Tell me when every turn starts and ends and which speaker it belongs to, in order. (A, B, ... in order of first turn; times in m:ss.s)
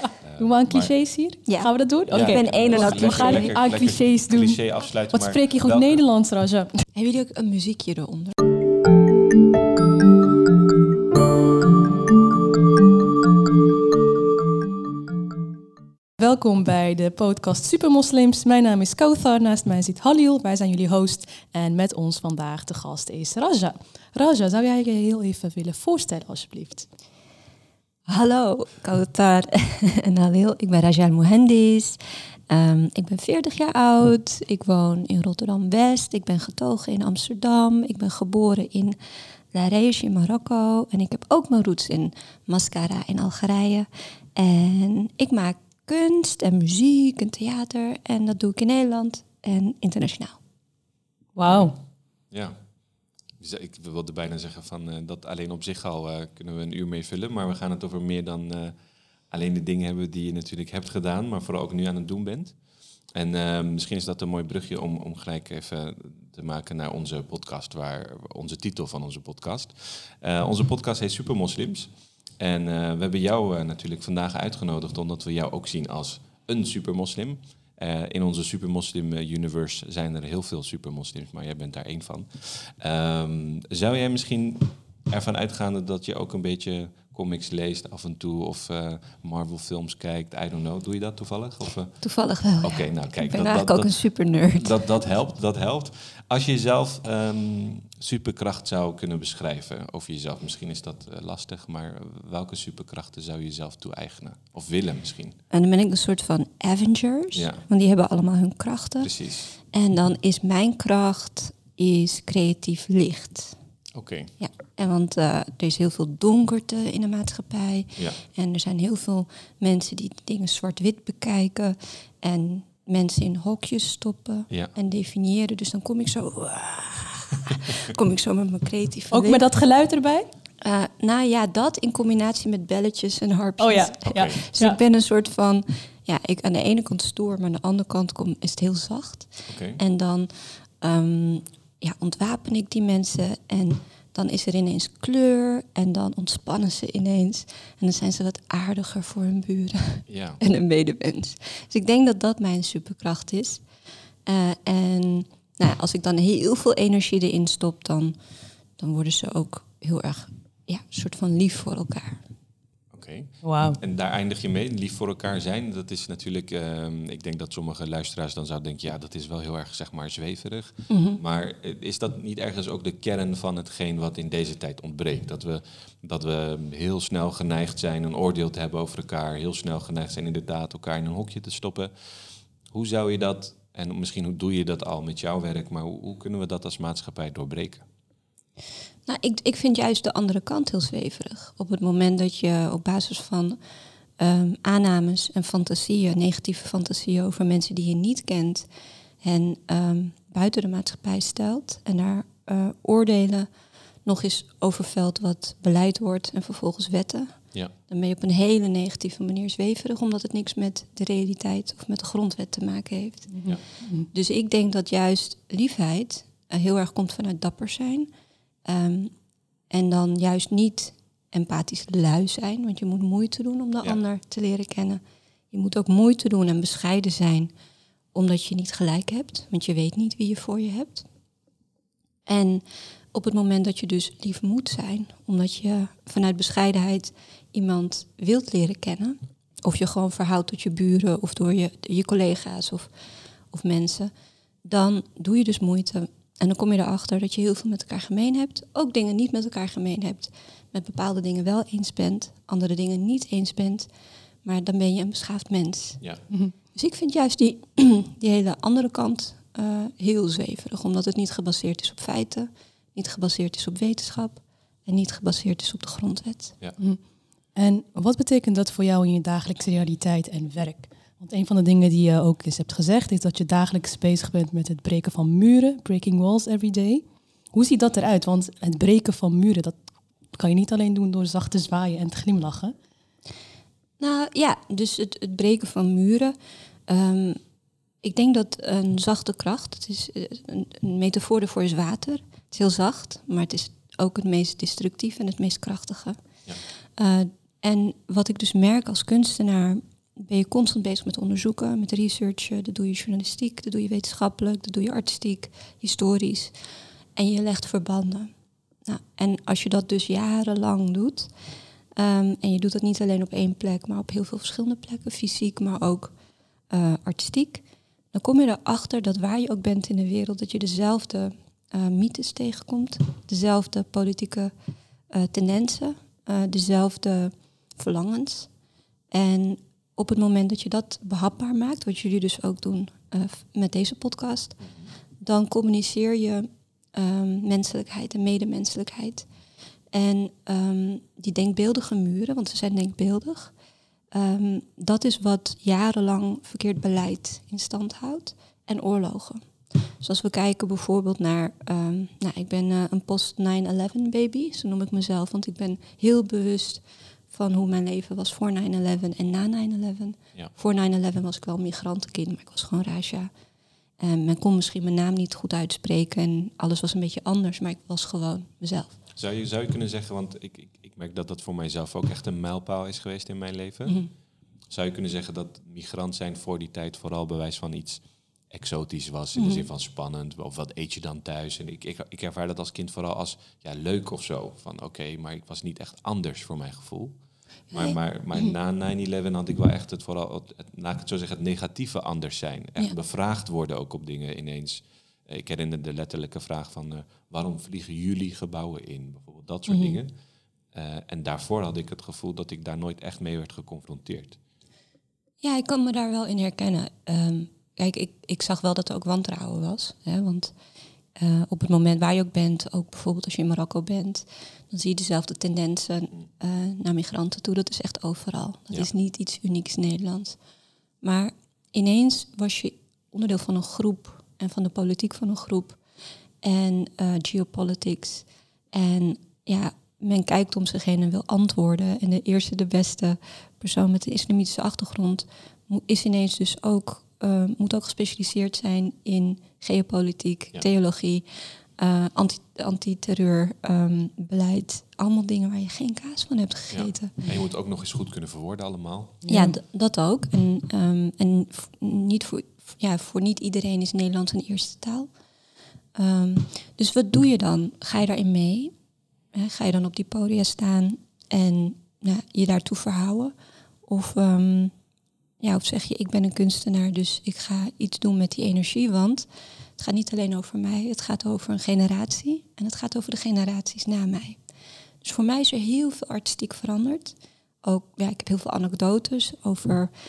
0:00.2-0:00.9 A
0:00.4-0:04.6 B
0:01.5-0:03.6 C
0:02.1-0:06.0 A
0:05.1-0:06.7 B
0:06.9-0:08.3 C
0:16.2-0:26.9 B
0:28.1-0:39.0 C
0:39.5-0:50.4 C
0:51.4-0:51.8 B
0:51.4-0:51.8 A
0:52.3-0:52.6 A
0:53.4-0:58.8 A
0:59.3-1:02.6 A
1:03.1-1:45.4 A
1:32.0-1:34.8 C
1:45.5-1:53.6 C
1:47.3-1:47.6 A
1:49.0-1:49.5 A
1:53.9-1:54.3 A
1:54.4-2:09.4 C
2:09.1-2:10.3 B
2:10.6-2:33.6 C
2:13.6-2:14.8 B
2:14.0-2:14.4 A
2:19.5-2:19.8 A
2:30.1-2:30.4 A
2:34.2-2:38.2 C
2:38.8-2:42.2 C
2:42.9-3:01.9 A
2:43.4-2:43.8 B
2:50.9-2:51.2 C
3:02.7-3:07.8 A
3:09.0-3:13.6 C
3:14.2-3:18.7 C
3:19.2-3:23.5 C
3:24.0-3:38.1 C
3:33.3-3:34.1 B
3:38.6-3:39.1 C
3:39.7-3:45.0 C
3:45.5-3:47.5 C
3:48.1-3:51.1 C
3:52.2-4:02.9 C
4:03.5-4:04.1 C
4:04.6-4:13.9 C
4:14.4-4:16.0 C
4:16.7-4:26.6 C
4:27.5-4:39.8 B
4:40.3-4:42.7 B
4:44.0-4:46.4 C
4:46.9-4:47.4 C
4:48.0-4:56.2 C
4:57.0-5:06.5 C
5:07.2-5:08.3 C
5:08.8-5:11.3 C
5:12.0-5:16.1 C
5:16.7-5:24.5 C
5:25.1-5:28.5 C
5:29.1-5:34.6 C
5:34.6-5:34.9 A
5:35.2-5:39.2 C
5:39.9-5:43.5 C
5:44.1-6:03.3 C
6:04.0-6:09.0 C
6:09.2-6:14.0 A
6:14.7-6:27.1 A
6:19.4-6:19.6 C
6:27.7-6:40.1 A
6:27.7-6:28.4 C
6:39.7-6:40.0 C
6:40.7-6:44.4 A
6:45.4-6:50.5 C
6:51.2-7:00.4 C
7:01.0-7:05.8 C
7:06.4-7:21.2 C
7:21.8-7:27.2 C
7:26.7-7:29.2 A
7:29.2-7:29.6 B
7:29.3-7:35.1 C
7:36.0-7:38.7 C
7:39.3-7:43.3 C
7:43.8-7:44.7 C
7:45.4-7:54.4 C
7:55.0-7:59.9 C